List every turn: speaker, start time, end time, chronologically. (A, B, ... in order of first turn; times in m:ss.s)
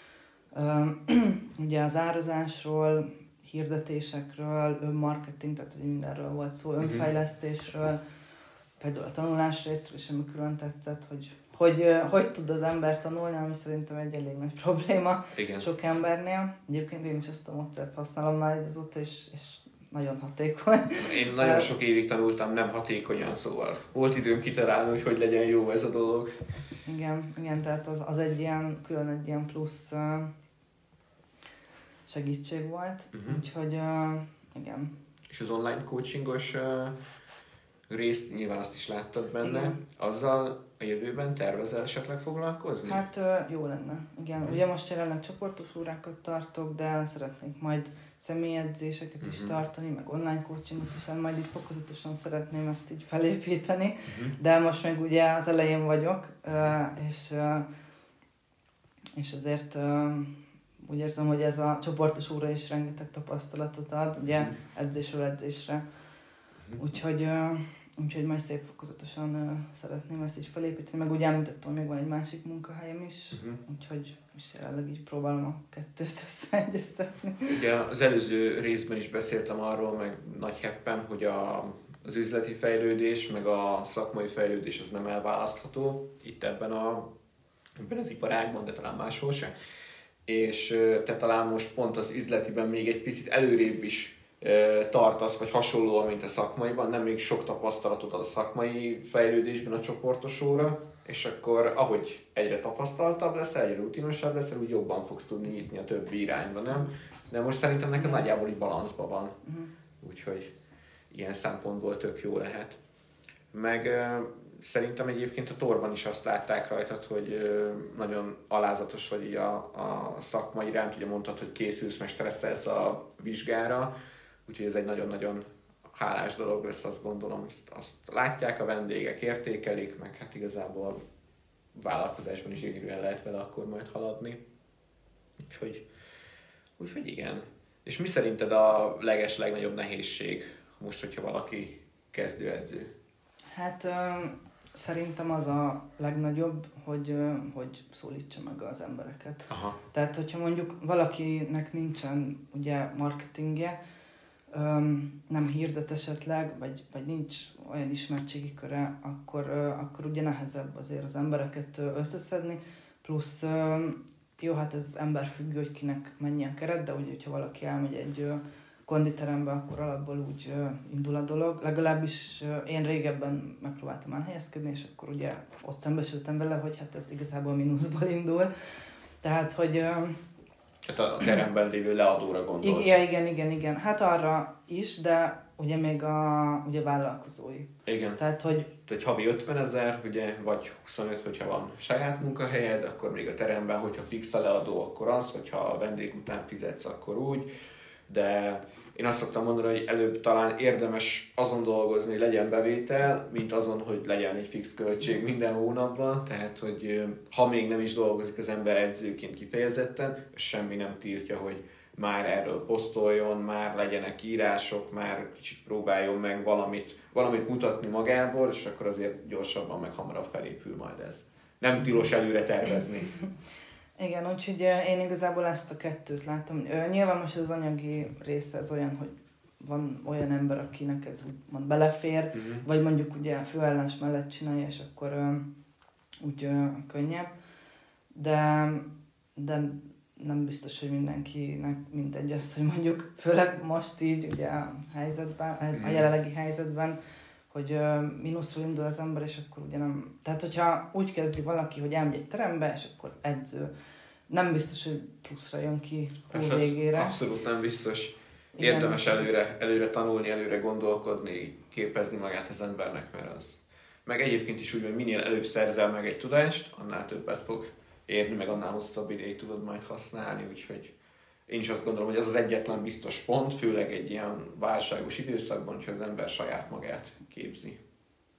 0:00.5-0:08.0 A
0:06.8-0:07.0 B
0:08.8-0:21.7 A
0:15.3-0:15.7 B
0:21.0-0:26.4 B
0:26.8-0:30.3 A
0:32.1-0:34.9 A
0:33.1-0:33.4 B
0:35.3-0:37.0 B
0:37.9-0:43.0 B
0:39.4-0:39.8 A
0:42.8-0:57.6 A
0:49.2-0:49.6 B
0:54.1-0:54.3 B
0:59.2-1:05.8 A
1:06.8-1:17.6 A
1:13.3-1:13.6 B
1:17.5-1:27.1 B
1:27.8-1:29.5 B
1:30.2-1:49.4 B
1:50.0-1:50.5 B
1:51.1-1:52.8 B
1:53.5-2:03.9 B
2:04.4-2:11.0 B
2:11.7-2:14.4 B
2:15.4-2:15.8 B
2:16.8-2:22.9 B
2:23.5-2:33.8 A
2:29.5-2:29.8 B
2:34.5-2:58.5 A
2:59.2-3:00.2 A
3:00.8-3:03.0 B
3:02.6-3:08.7 A
3:07.8-3:08.2 B
3:08.8-3:17.5 B
3:18.1-3:43.2 B
3:44.0-3:55.4 A
3:52.3-3:52.6 B
3:56.2-3:57.3 A
3:58.1-4:07.0 A
4:05.7-4:06.1 B
4:07.5-4:13.7 A
4:14.3-4:17.2 A
4:16.3-4:30.9 B
4:18.6-4:19.2 A
4:31.5-4:37.8 B